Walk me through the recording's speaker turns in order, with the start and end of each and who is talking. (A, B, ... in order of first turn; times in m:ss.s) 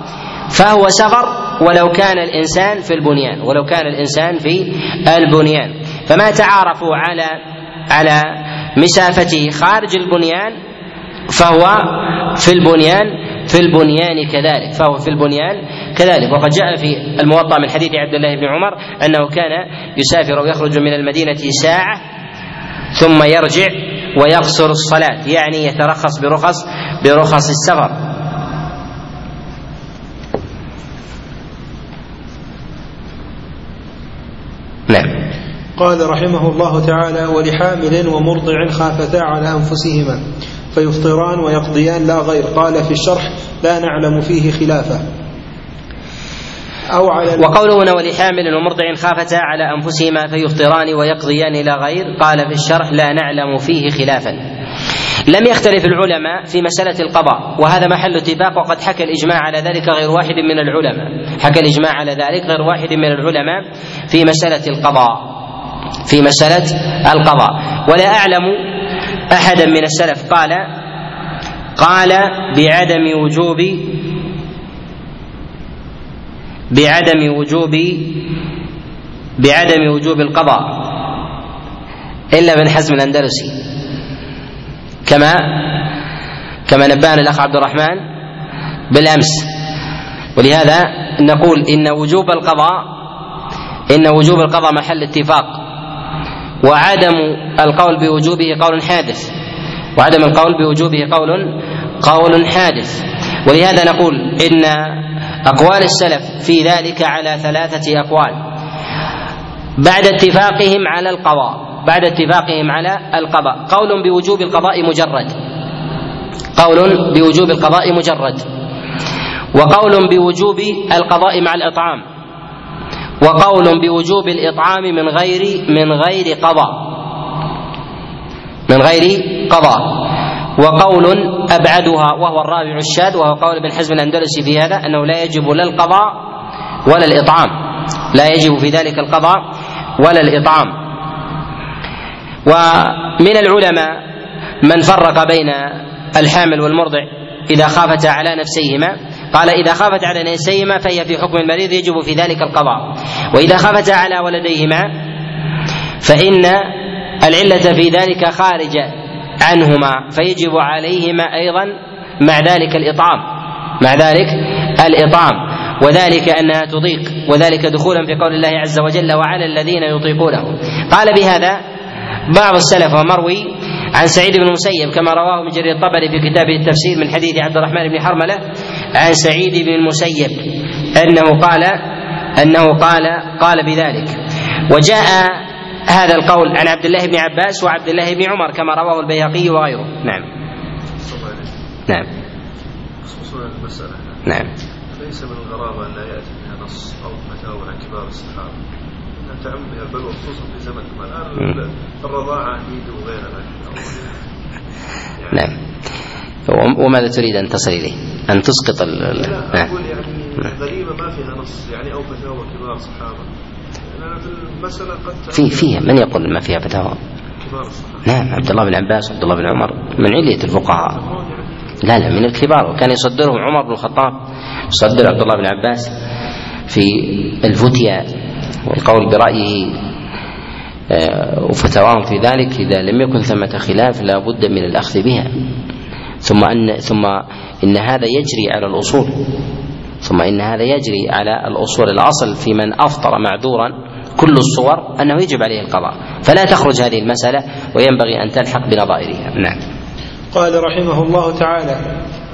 0:00.5-0:10.6 A
0:11.3-0:22.0 A
0:23.0-0:28.0 A
0:34.9-0:35.1 A
0:35.8-0:40.2 B
0:40.7-0:45.0 B
0:46.9-0:47.5 B
0:47.4-0:54.4 A
0:55.3-1:05.3 A
1:06.0-1:08.6 A
1:09.3-1:10.6 A
1:11.8-1:14.0 A
1:16.7-1:18.2 A
1:19.4-1:20.8 A
1:22.3-1:23.6 A
1:25.0-1:25.8 A
1:26.7-1:28.0 A
1:28.9-1:29.5 A
1:30.4-1:32.9 A
1:33.9-1:35.6 A
1:36.6-1:39.3 A
1:40.0-1:48.4 A
1:49.8-1:55.4 A
1:56.6-1:58.5 A
1:59.5-2:02.0 A
2:03.2-2:06.9 A
2:08.7-2:10.0 A
2:10.6-2:16.2 A
2:16.8-2:17.6 A
2:18.1-2:19.4 A
2:20.0-2:20.8 A
2:22.4-2:24.0 A
2:24.6-2:34.9 A
2:36.0-2:43.2 A
2:43.8-2:51.6 A
2:52.3-2:58.4 A
2:59.0-3:01.8 A
3:02.4-3:10.2 A
3:11.0-3:11.5 C
3:13.0-3:14.2 C
3:14.9-3:18.6 C
3:19.2-3:24.1 C
3:25.2-3:25.4 C
3:26.5-3:29.7 A
3:29.1-3:33.3 C
3:33.8-3:35.7 C
3:35.3-3:37.0 A
3:37.4-3:38.0 C
3:38.0-3:41.0 A
3:41.0-3:41.8 C
3:41.8-3:44.2 A
3:44.7-3:45.9 A
3:46.7-3:48.1 A
3:48.6-3:49.8 A
3:50.9-3:55.3 A
3:56.2-3:59.2 A
4:00.0-4:09.6 A
4:10.3-4:11.8 B